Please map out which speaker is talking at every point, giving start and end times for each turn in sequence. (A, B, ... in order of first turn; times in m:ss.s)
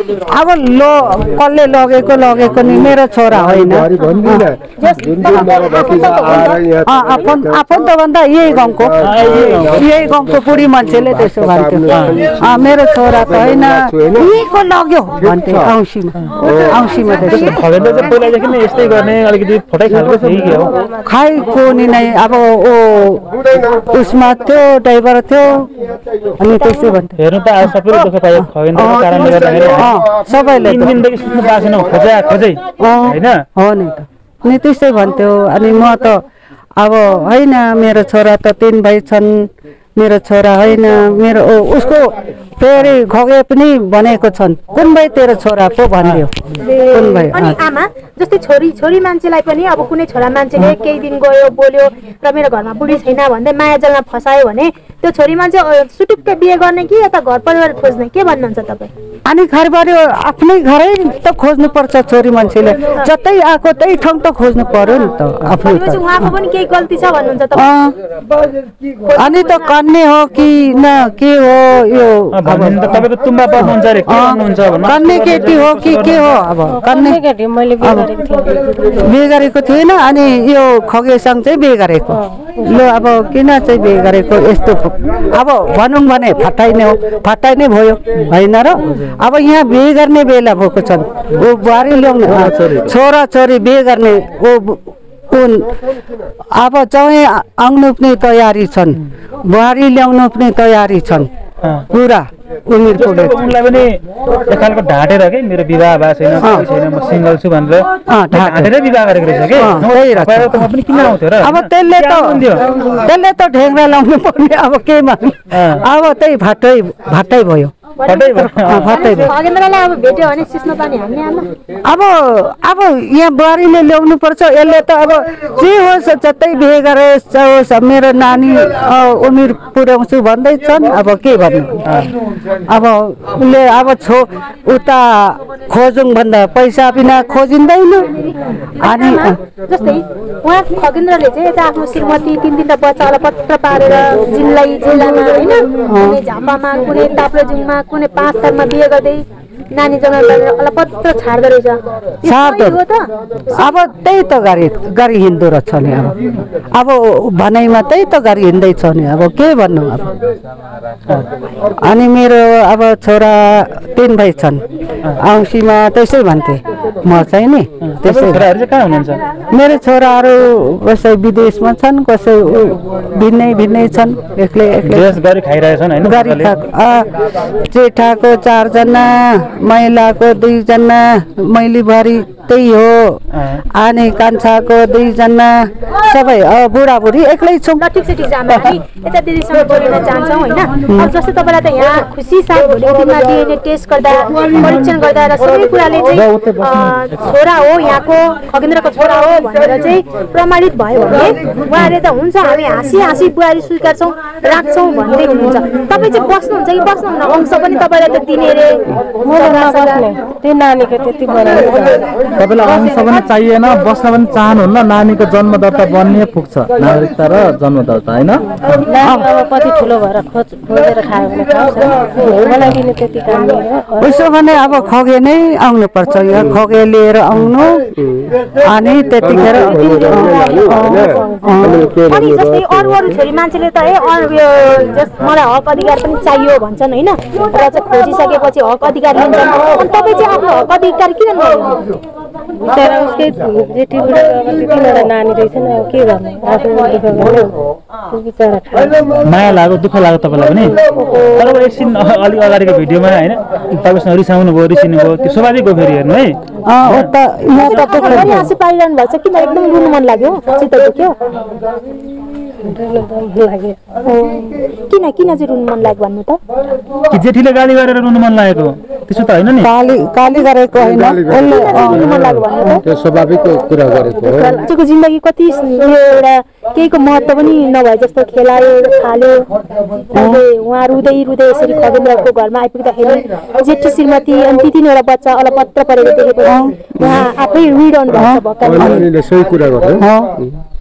0:00.2-0:04.4 A
0:02.6-0:07.7 B
0:04.8-0:06.6 C
0:06.8-0:17.6 A
0:08.6-0:14.3 B
0:09.0-0:09.8 D
0:11.9-0:12.2 D
0:15.2-0:15.7 B
0:16.4-0:16.8 B
0:17.2-0:20.7 D
0:21.0-0:25.7 A
0:26.4-0:31.0 A
0:27.2-0:30.0 D
0:30.6-0:33.4 D
0:32.8-0:36.2 A
0:36.8-0:46.3 A
0:46.0-0:46.2 D
0:46.6-0:58.9 C
0:46.9-0:47.6 A
0:59.3-1:06.3 A
1:05.6-1:07.7 C
1:07.5-1:07.9 A
1:09.1-1:09.7 C
1:09.2-1:17.2 A
1:12.3-1:16.4 D
1:16.7-1:19.0 E
1:17.8-1:18.1 A
1:19.0-1:35.8 A
1:22.3-1:22.9 E
1:32.1-1:32.9 F
1:36.5-1:41.3 A
1:41.9-1:43.4 A
1:42.9-1:52.6 D
1:46.4-1:46.6 A
1:48.1-1:48.7 A
1:49.5-1:50.7 A
1:51.4-1:57.7 A
1:55.5-1:55.8 D
1:58.0-1:58.3 C
1:58.0-1:59.3 D
1:58.2-1:59.3 A
1:58.8-2:01.5 C
2:01.8-2:11.8 A
2:11.8-2:12.1 D
2:12.7-2:18.1 A
2:18.4-2:33.0 C
2:18.8-2:19.4 A
2:25.9-2:26.2 A
2:32.2-2:32.8 A
2:33.6-2:36.1 A
2:36.7-2:40.1 A
2:41.8-2:44.6 A
2:45.2-2:48.5 A
2:47.8-2:49.2 D
2:49.5-2:55.1 A
2:54.8-2:56.5 D
2:56.0-3:03.2 A
3:03.3-3:03.6 D
3:03.7-3:07.8 A
3:07.8-3:30.1 C
3:16.2-3:17.0 D
3:29.2-3:32.1 E
3:32.4-3:38.4 F
3:38.9-3:44.1 E
3:39.0-3:39.2 A
3:44.0-3:47.9 A
3:48.0-3:48.3 B
3:48.6-3:51.8 A
3:49.2-3:52.9 B
3:52.0-4:01.8 C
4:02.6-4:07.5 E
4:08.1-4:09.2 E
4:09.2-4:10.8 D
4:11.3-4:17.1 D
4:16.7-4:18.5 A
4:17.5-4:21.1 C
4:17.6-4:18.3 D
4:22.6-4:23.8 E
4:24.0-4:26.4 C
4:27.1-4:29.7 D
4:29.6-4:32.8 A
4:30.7-4:32.0 B
4:31.3-4:32.8 C
4:32.8-4:34.6 B
4:34.2-4:34.6 E
4:34.6-4:39.5 C
4:40.1-4:49.1 C
4:40.1-4:40.4 A
4:46.4-4:46.8 A
4:48.1-4:49.0 A
4:48.6-4:50.6 B
4:50.0-4:50.3 A